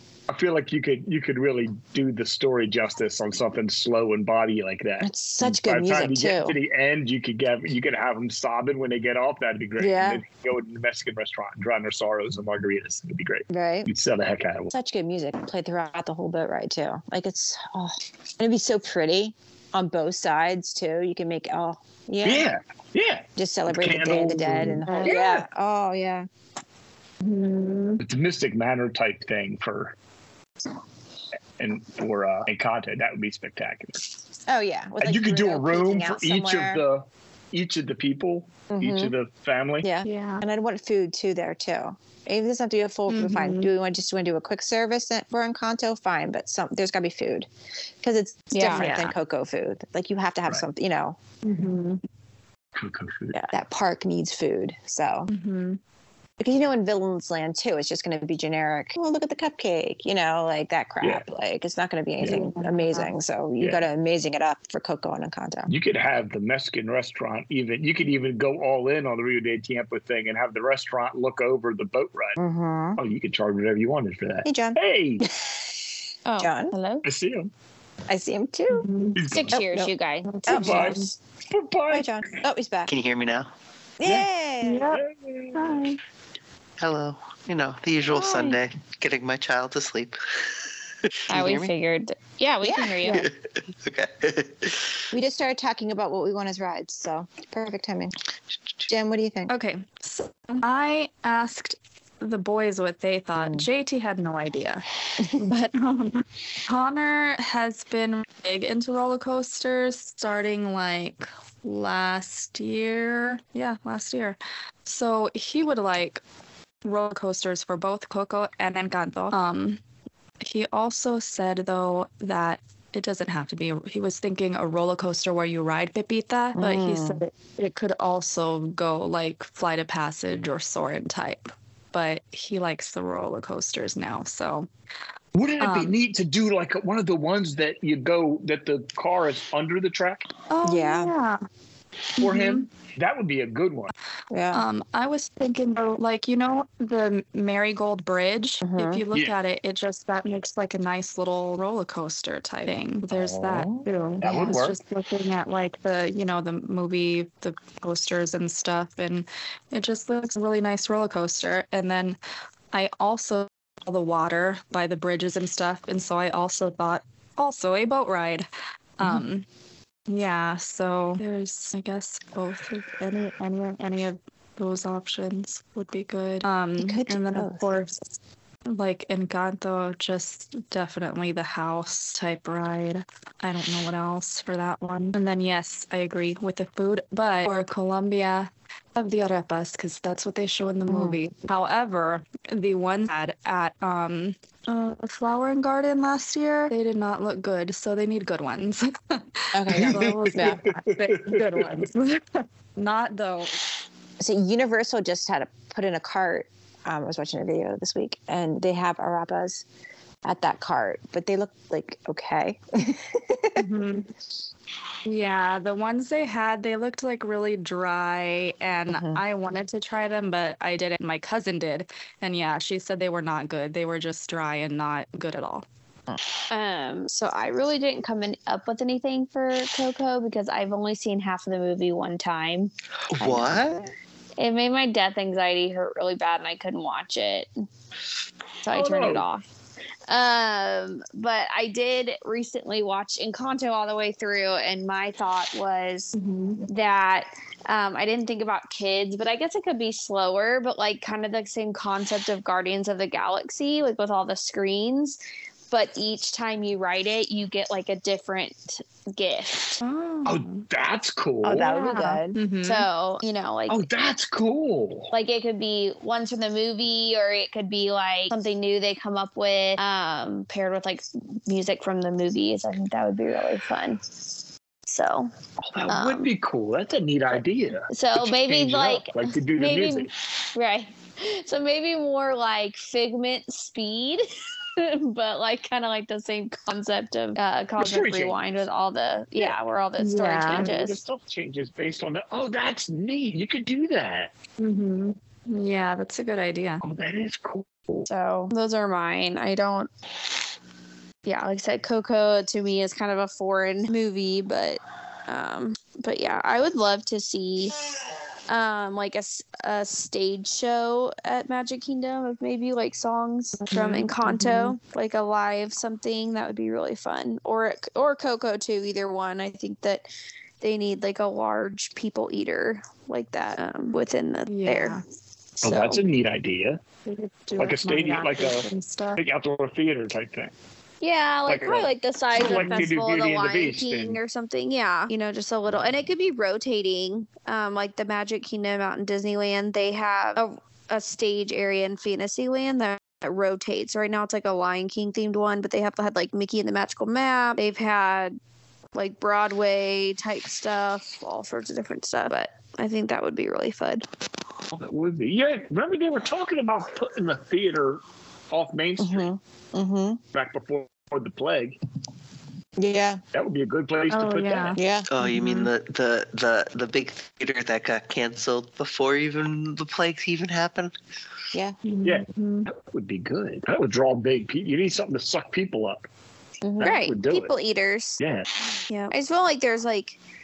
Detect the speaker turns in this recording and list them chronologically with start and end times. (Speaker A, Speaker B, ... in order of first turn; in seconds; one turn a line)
Speaker A: 0.3-14.7
Speaker B: 5.0-6.6
Speaker B: 9.8-10.2
Speaker B: 13.5-13.9
Speaker B: 14.7-22.5
Speaker A: 22.2-25.4
Speaker B: 23.4-26.3
Speaker C: 24.8-25.1
Speaker C: 27.2-28.0
Speaker A: 28.0-29.9
Speaker A: 31.6-34.1
Speaker B: 34.5-36.8
Speaker A: 35.0-39.9
Speaker B: 38.7-39.1
Speaker B: 39.8-47.5
Speaker C: 40.0-40.4
Speaker C: 43.1-43.7
Speaker B: 48.0-51.2
Speaker D: 48.5-48.9
Speaker C: 48.7-49.1
Speaker C: 51.4-52.0
Speaker A: 52.8-53.4
Speaker B: 53.3-55.3
Speaker C: 55.3-55.8
Speaker B: 56.4-65.7
Speaker C: 62.2-63.1
Speaker A: 65.7-72.4
Speaker B: 72.4-73.0
Speaker A: 73.0-75.2
Speaker B: 74.4-75.7
Speaker D: 76.2-77.0
Speaker B: 76.4-76.7
Speaker A: 77.0-77.5
Speaker B: 78.1-78.9
Speaker C: 78.7-79.2
Speaker A: 79.2-79.6
Speaker D: 79.3-80.4
Speaker B: 79.5-79.9
Speaker C: 80.2-81.1
Speaker B: 80.5-81.0
Speaker A: 80.5-82.4
Speaker B: 81.9-82.9
Speaker E: 82.9-83.5
Speaker B: 84.0-84.9
Speaker C: 84.6-85.0
Speaker A: 84.9-85.6
Speaker C: 85.5-86.0
Speaker E: 86.8-91.7
Speaker B: 88.1-88.6
Speaker D: 91.3-93.2
Speaker B: 92.6-93.0
Speaker E: 93.2-95.0
Speaker B: 95.1-98.1
Speaker B: 98.9-99.5
Speaker C: 99.5-116.2
Speaker B: 103.4-103.7
Speaker C: 116.8-119.8
Speaker C: 120.4-134.7
Speaker B: 126.5-127.2
Speaker A: 135.3-140.3
Speaker C: 135.6-135.9
Speaker C: 140.5-141.4
Speaker B: 140.6-141.1
Speaker C: 142.2-142.7
Speaker A: 142.2-143.9
Speaker B: 144.3-144.6
Speaker C: 144.5-162.2
Speaker B: 148.6-149.0
Speaker A: 153.1-154.8
Speaker B: 154.2-154.6
Speaker C: 162.7-168.5
Speaker C: 169.0-169.4
Speaker C: 170.1-203.6
Speaker B: 176.8-177.7
Speaker B: 190.9-191.2
Speaker B: 199.5-200.6
Speaker A: 199.7-201.7
Speaker B: 204.2-209.6
Speaker B: 210.2-213.6
Speaker C: 213.6-214.1
Speaker C: 215.0-225.6
Speaker B: 218.9-219.2
Speaker D: 226.5-232.7
Speaker E: 233.1-233.8
Speaker B: 233.2-233.8
Speaker D: 234.4-237.5
Speaker D: 238.6-239.4
Speaker A: 238.7-239.2
Speaker D: 240.1-246.1
Speaker C: 246.1-246.7
Speaker D: 246.7-255.2
Speaker D: 255.7-259.8
Speaker C: 259.8-260.6
Speaker A: 260.2-261.7
Speaker B: 261.4-262.4
Speaker C: 261.5-262.9
Speaker D: 262.6-263.8
Speaker A: 263.7-265.1
Speaker D: 265.1-274.3
Speaker D: 274.9-275.3
Speaker A: 275.6-280.1
Speaker D: 275.9-276.3
Speaker D: 277.9-284.2
Speaker D: 284.8-291.0
Speaker A: 287.8-288.4
Speaker C: 290.0-290.7
Speaker A: 290.5-294.3
Speaker C: 294.6-296.8
Speaker A: 296.8-298.1
Speaker D: 298.1-299.9
Speaker D: 301.2-307.9
Speaker D: 308.5-320.1
Speaker C: 313.6-314.7
Speaker D: 320.6-325.0
Speaker C: 324.5-325.0
Speaker D: 325.6-326.0
Speaker A: 325.6-326.8
Speaker C: 327.1-329.2
Speaker A: 327.6-330.5
Speaker D: 331.0-348.4
Speaker A: 331.5-334.2
Speaker C: 332.5-332.9
Speaker D: 348.9-354.0
Speaker A: 354.7-359.3
Speaker B: 359.0-360.2
Speaker A: 360.3-361.8
Speaker B: 362.8-363.2
Speaker A: 363.3-364.8
Speaker C: 364.1-365.7
Speaker B: 364.8-365.1
Speaker E: 365.1-370.9
Speaker C: 371.8-372.7
Speaker A: 372.0-376.1
Speaker B: 376.6-376.9
Speaker A: 376.8-377.5
Speaker D: 376.8-378.2
Speaker A: 378.2-378.5
Speaker D: 378.9-380.2